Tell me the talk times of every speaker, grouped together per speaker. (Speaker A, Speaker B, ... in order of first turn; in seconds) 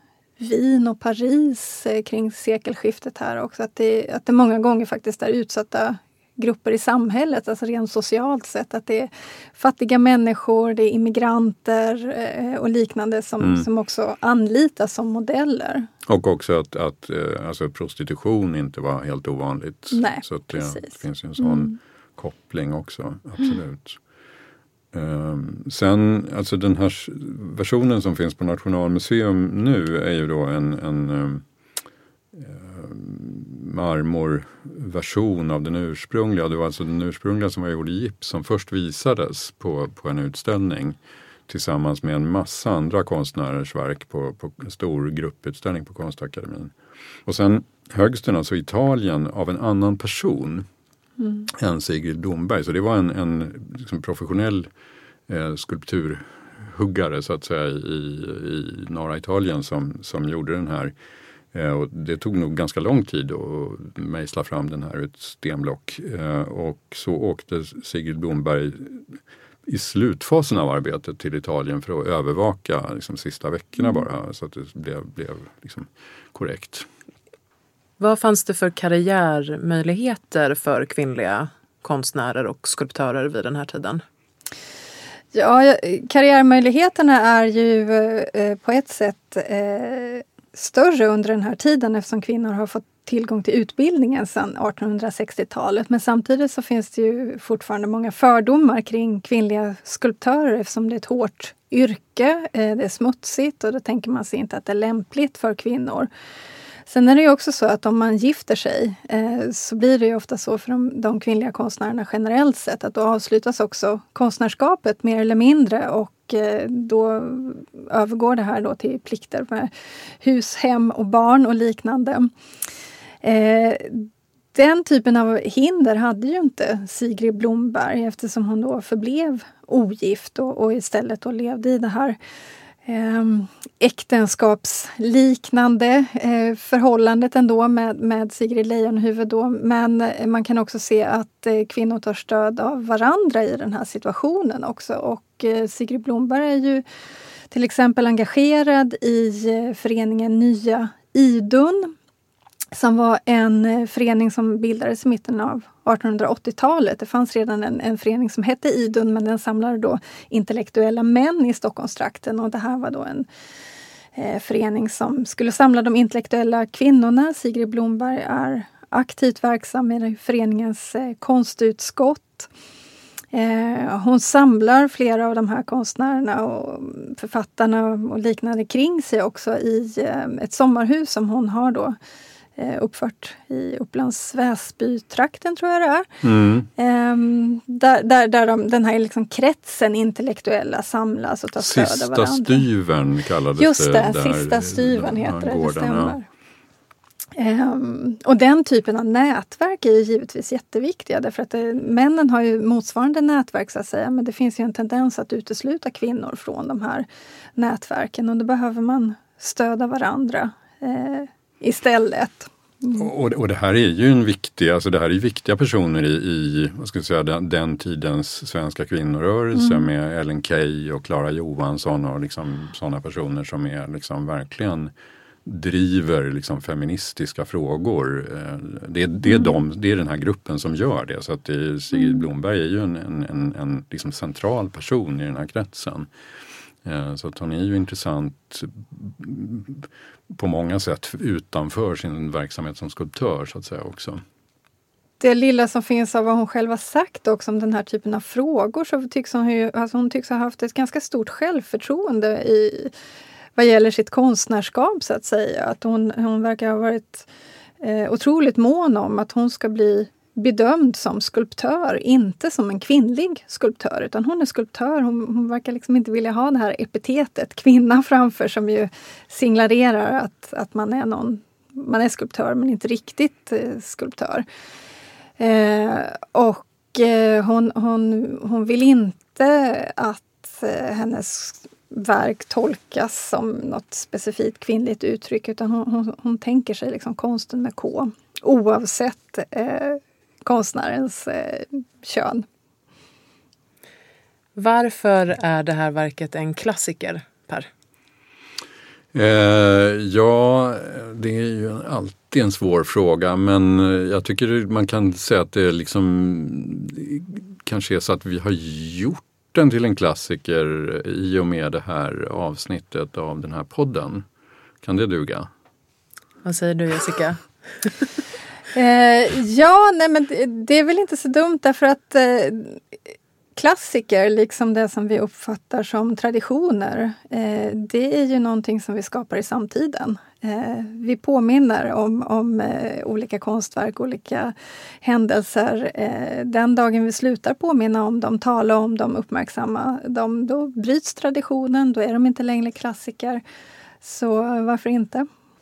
Speaker A: 0.4-15.9, 19.9-21.7, 85.3-106.1, 106.9-119.7, 120.2-122.3, 123.2-132.2, 132.8-146.8, 147.5-151.9, 152.7-163.3, 164.1-172.5, 173.3-182.0, 182.6-186.1, 186.8-192.7, 193.6-196.2, 197.3-207.1, 207.6-213.0, 219.6-219.9, 245.2-252.9, 253.6-257.3, 257.8-274.4, 275.4-292.4, 318.7-322.8, 323.6-343.4, 344.0-345.3
Speaker B: 13.4-13.7, 16.1-24.0, 24.9-31.4, 32.3-41.0, 41.5-46.7, 47.2-50.6, 51.5-54.7, 55.3-60.9, 61.5-69.2, 69.7-76.9, 186.2-186.7, 191.6-196.2, 212.9-224.9, 225.4-236.1, 236.8-244.2, 299.1-314.2, 314.8-315.5
Speaker C: 78.0-84.0, 294.6-297.7, 316.4-317.9